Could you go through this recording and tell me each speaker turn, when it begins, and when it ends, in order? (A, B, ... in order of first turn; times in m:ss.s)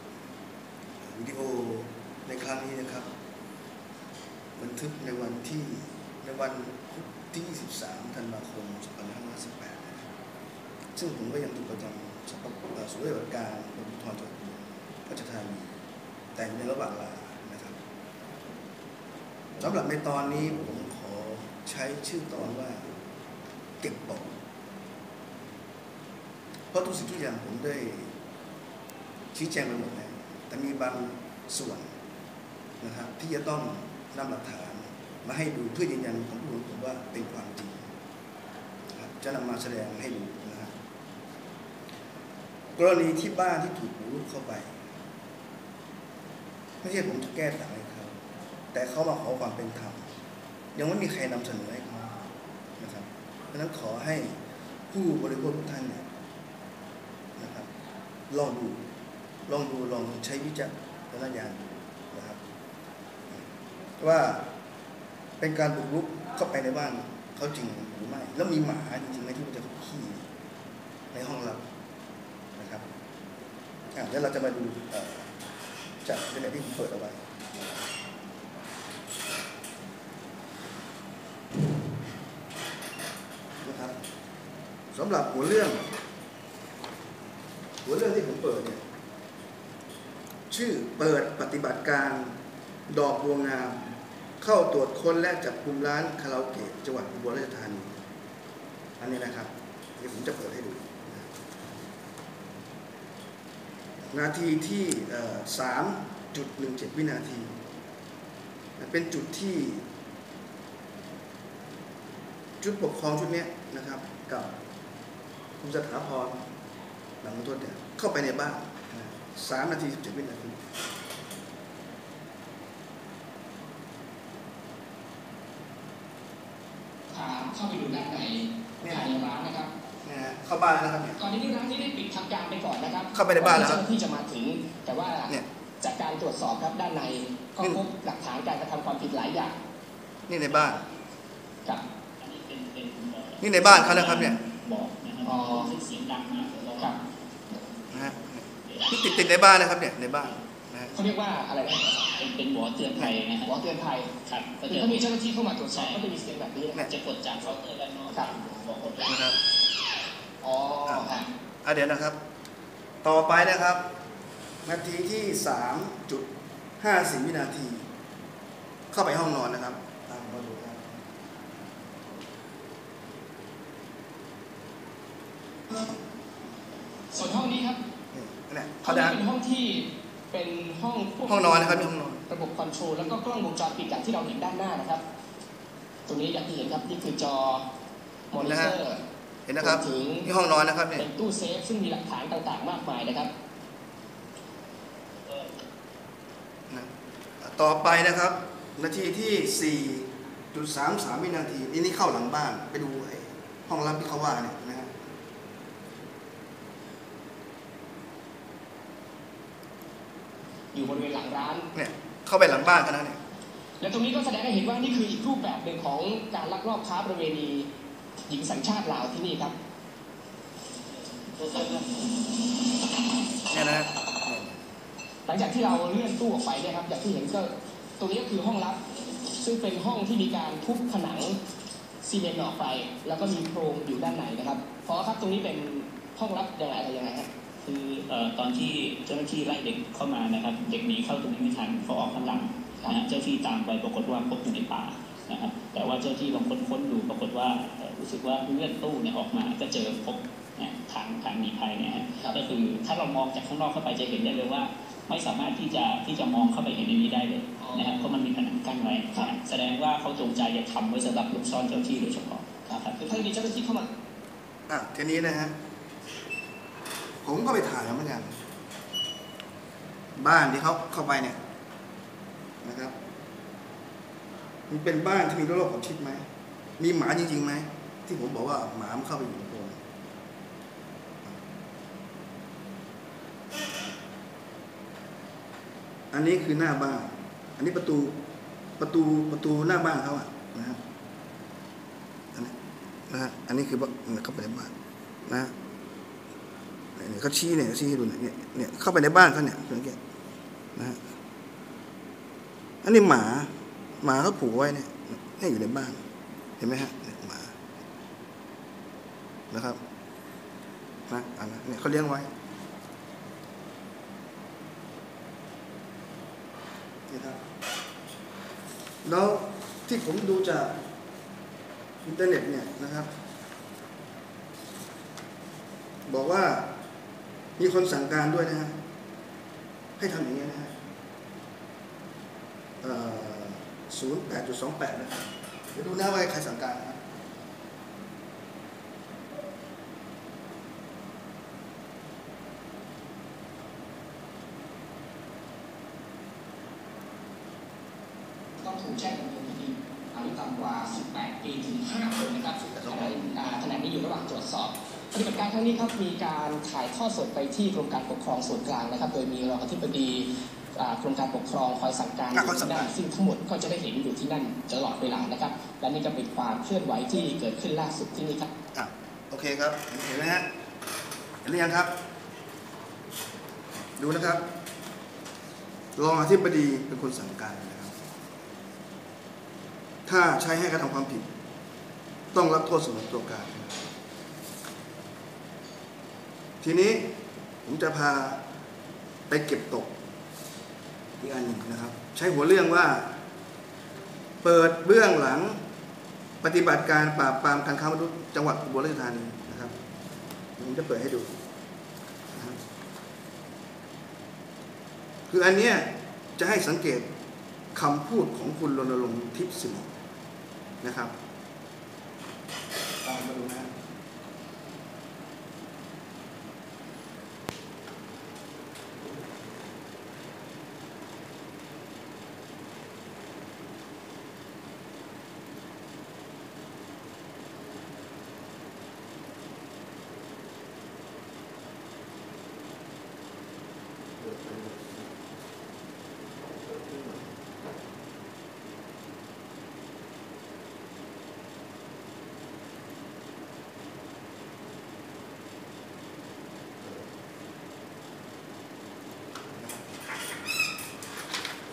0:01.0-0:03.1 A
0:04.6-0:10.1 A
0:10.9-0:15.7 A
0:16.3-0:17.8 A
0:19.6-0:22.9 A
0:23.8-0:24.3 A
0:26.7-0:28.1 A
0:29.3-0:31.9 A
0:32.8-0:37.9 A
0:38.9-0:40.7 A
0:42.8-0:44.8 A
0:46.8-0:48.2 A
0:48.7-0:50.1 A
0:50.7-0:54.4 A
0:54.9-0:56.0 A
0:57.4-0:57.7 A
0:58.3-0:58.9 A
0:59.5-1:02.4 A
1:04.0-1:04.5 A
1:05.4-1:10.3 A
1:11.1-1:11.7 A
1:12.6-1:12.8 A
1:13.9-1:15.3 A
1:16.0-1:17.6 A
1:23.6-1:24.0 A
1:24.9-1:25.9 A
1:27.8-1:28.8 A
1:30.5-1:38.0 A
1:39.0-1:41.3 A
1:44.1-1:47.6 A
1:48.8-1:49.9 A
1:52.6-1:54.6 A
1:55.6-1:56.5 A
1:57.2-2:00.6 A
2:07.1-2:09.7 B
2:08.8-2:09.2 A
2:10.0-2:11.2 A
2:11.2-2:19.5 B
2:13.1-2:13.8 A
2:20.3-2:20.8 A
2:22.2-2:27.0 C
2:23.4-2:24.4 A
2:25.2-2:25.7 B
2:27.9-2:30.9 A
2:28.6-2:29.0 C
2:30.9-2:32.0 B
2:32.1-2:33.5 C
2:33.4-2:34.1 B
2:34.2-2:35.1 C
2:34.7-2:36.9 B
2:35.7-2:36.0 C
2:36.9-2:39.2 C
2:39.0-2:39.4 A
2:40.4-2:41.3 B
2:40.8-2:42.2 A
2:43.0-2:43.9 A
2:44.6-2:46.3 A
2:46.8-2:47.9 A
2:48.9-2:51.0 A
2:57.1-2:57.8 B
2:58.1-2:59.2 A
2:58.8-3:05.0 B
3:01.2-3:02.2 A
3:06.0-3:07.7 B
3:08.3-3:09.0 B
3:08.4-3:08.7 A
3:09.5-3:11.0 A
3:09.6-3:10.3 B
3:11.0-3:13.3 B
3:16.7-3:25.0 A
3:30.7-3:31.7 B
3:31.7-3:33.2 A
3:33.8-3:37.7 B
3:38.3-3:39.5 B
3:41.4-3:41.9 C
3:43.5-3:44.6 A
3:45.2-3:51.4 B
3:52.0-3:57.3 B
3:57.6-4:23.0 C
4:17.6-4:18.1 B
4:23.0-4:23.9 B
4:24.7-4:25.5 A
4:27.2-4:28.4 A
4:30.2-4:31.4 A
4:32.6-4:32.9 A
4:34.7-4:36.2 A
4:36.8-4:39.8 A
4:46.1-4:48.2 A
4:48.8-4:50.8 A
4:53.1-4:54.7 A
4:55.2-4:55.5 A
4:57.0-5:00.0 A
5:00.8-5:01.1 A
5:02.8-5:06.0 A
5:06.6-5:07.6 A
5:09.5-5:09.8 A
5:11.1-5:12.3 A
5:17.1-5:17.4 A
5:19.0-5:20.8 A
5:22.0-5:23.1 A
5:26.1-5:26.8 A
5:27.6-5:28.8 A
5:30.0-5:30.8 A
5:32.8-5:37.0 A
5:48.6-6:08.5 B
5:52.4-5:53.4 A
6:02.3-6:02.9 A
6:08.7-6:10.5 A
6:11.4-6:12.0 A
6:13.8-6:14.5 A
6:16.0-6:18.0 A
6:20.0-6:21.3 A
6:22.3-6:23.9 A
6:26.6-6:28.4 A
6:29.3-6:30.0 A
6:31.2-6:33.2 A
6:34.4-6:35.6 A
6:36.4-6:39.7 A
6:40.6-6:41.4 A
6:42.3-6:42.6 A
6:45.3-6:47.1 A
6:47.7-6:49.9 A
6:50.8-6:51.1 A
6:53.0-6:53.7 A
7:14.2-7:15.2 A
7:16.6-7:17.3 A
7:26.8-7:27.1 A
7:29.5-7:29.9 A